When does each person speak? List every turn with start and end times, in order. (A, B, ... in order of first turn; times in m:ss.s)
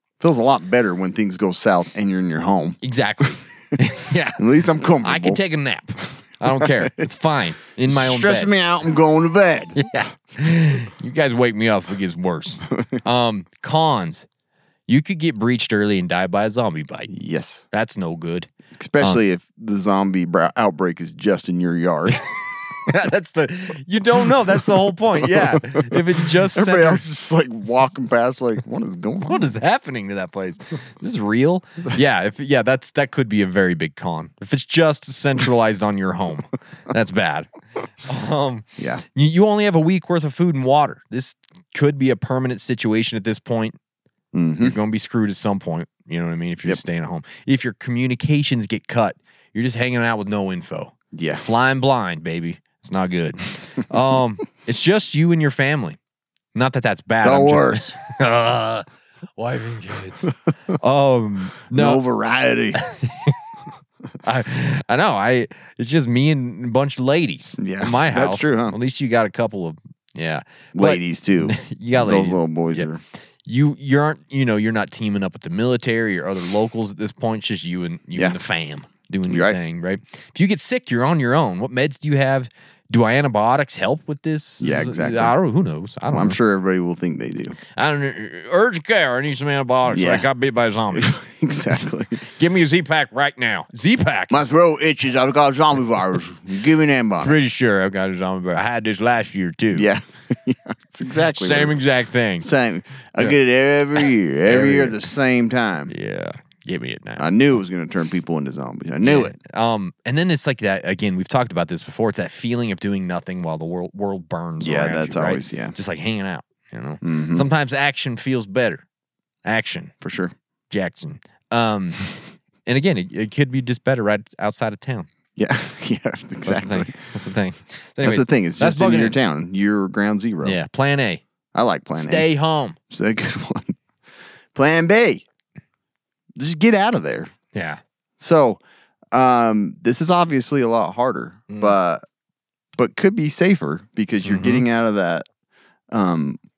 0:00.2-0:02.8 A
0:02.8-0:04.4 B
0:04.4-0:05.4 A
0:05.0-0:08.5 B
0:06.4-0:07.0 A
0:07.8-0:09.8 A
0:09.8-0:14.3 B
0:14.9-0:17.1 B
0:17.1-0:17.6 A
0:17.7-0:18.5 B
0:18.7-0:22.2 A
0:22.9-0:27.0 B
0:25.2-0:29.5 A
0:29.2-0:37.5 B
0:38.0-0:43.8 B
0:38.8-0:39.0 A
0:44.3-0:44.7 A
0:44.6-0:56.0 B
0:51.1-0:51.4 A
0:56.5-0:58.8 B
0:57.2-0:57.9 A
0:59.4-1:02.0 B
1:01.7-1:02.8 A
1:02.8-1:03.4 B
1:04.2-1:12.9 B
1:07.6-1:08.8 A
1:10.7-1:13.0 A
1:13.4-1:26.4 B
1:19.3-1:19.6 A
1:24.6-1:25.4 A
1:26.1-1:27.6 A
1:27.8-1:31.1 B
1:29.9-1:30.3 A
1:30.9-1:32.2 A
1:32.2-1:34.5 B
1:34.3-1:37.4 A
1:37.2-1:39.9 B
1:39.7-1:41.8 A
1:41.3-1:42.5 B
1:42.4-1:45.9 A
1:44.4-1:45.0 B
1:45.9-1:47.2 B
1:47.2-1:49.4 A
1:49.0-1:58.8 B
1:54.6-1:55.8 A
1:57.0-1:57.4 A
1:59.4-1:59.9 B
2:00.0-2:00.3 A
2:00.7-2:02.0 B
2:02.6-2:05.1 B
2:05.4-2:06.9 A
2:06.4-2:09.2 B
2:08.0-2:10.6 A
2:10.4-2:11.2 B
2:11.5-2:12.3 A
2:11.9-2:12.8 B
2:12.9-2:13.8 A
2:14.5-2:15.2 A
2:16.4-2:17.3 A
2:17.5-2:17.8 B
2:18.2-2:18.6 A
2:19.1-2:22.0 A
2:21.5-2:21.8 B
2:22.8-2:25.2 A
2:24.2-2:24.6 B
2:25.9-2:26.4 A